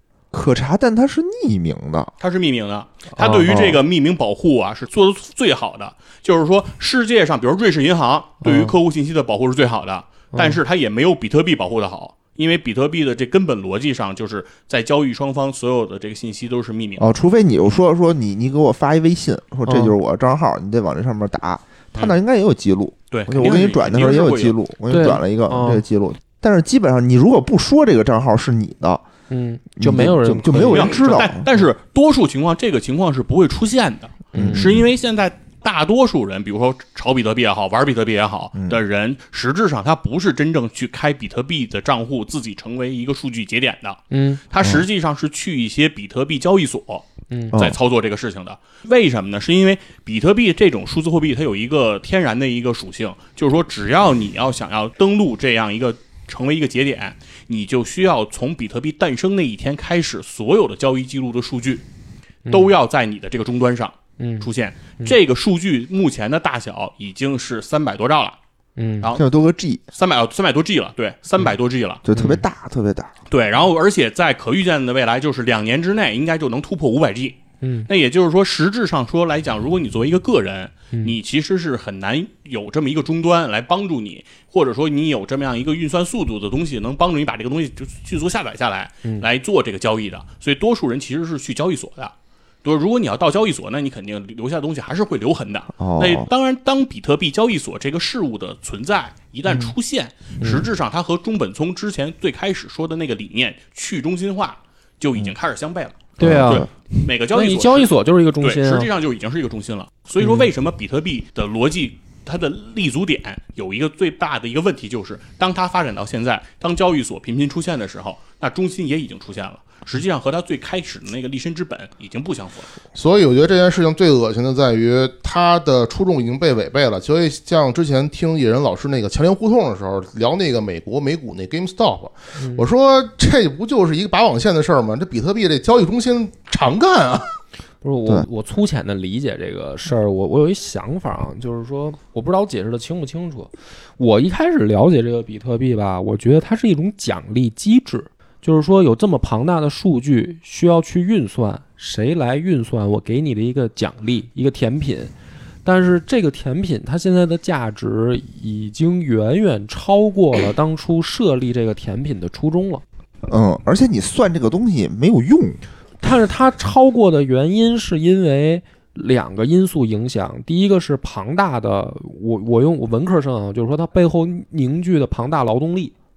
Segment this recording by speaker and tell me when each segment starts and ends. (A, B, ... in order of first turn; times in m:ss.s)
0:00.3-0:02.1 A
0:02.2-0:17.1 B
0:03.2-0:03.6 C
0:03.4-0:03.8 A
0:08.4-0:08.7 C
0:10.3-0:10.6 C
0:17.0-0:29.0 A
0:19.7-0:20.0 C
0:23.1-0:24.6 B
0:24.9-0:25.8 C
0:29.3-0:31.3 C
0:29.8-0:31.5 A
0:30.5-1:01.8 B
0:34.3-0:34.7 C
0:34.4-0:34.8 A
0:44.1-0:44.4 C
0:47.3-0:47.6 C
1:02.5-1:02.7 C
1:02.5-1:08.4 B
1:04.2-1:04.5 C
1:08.8-1:09.1 C
1:09.2-1:09.8 A
1:09.9-1:12.0 B
1:12.0-1:13.1 A
1:12.1-1:12.4 C
1:13.3-1:32.1 B
1:17.6-1:17.9 C
1:32.6-2:02.7 B
1:35.8-1:36.3 A
1:40.4-1:40.7 C
1:46.2-1:46.7 C
1:46.2-1:46.7 A
1:47.3-1:48.9 C
1:50.2-1:50.5 C
2:03.0-2:17.4 D
2:12.4-2:12.7 C
2:17.8-2:35.1 C
2:35.6-2:42.8 C
2:43.2-2:45.6 A
2:46.0-2:55.9 C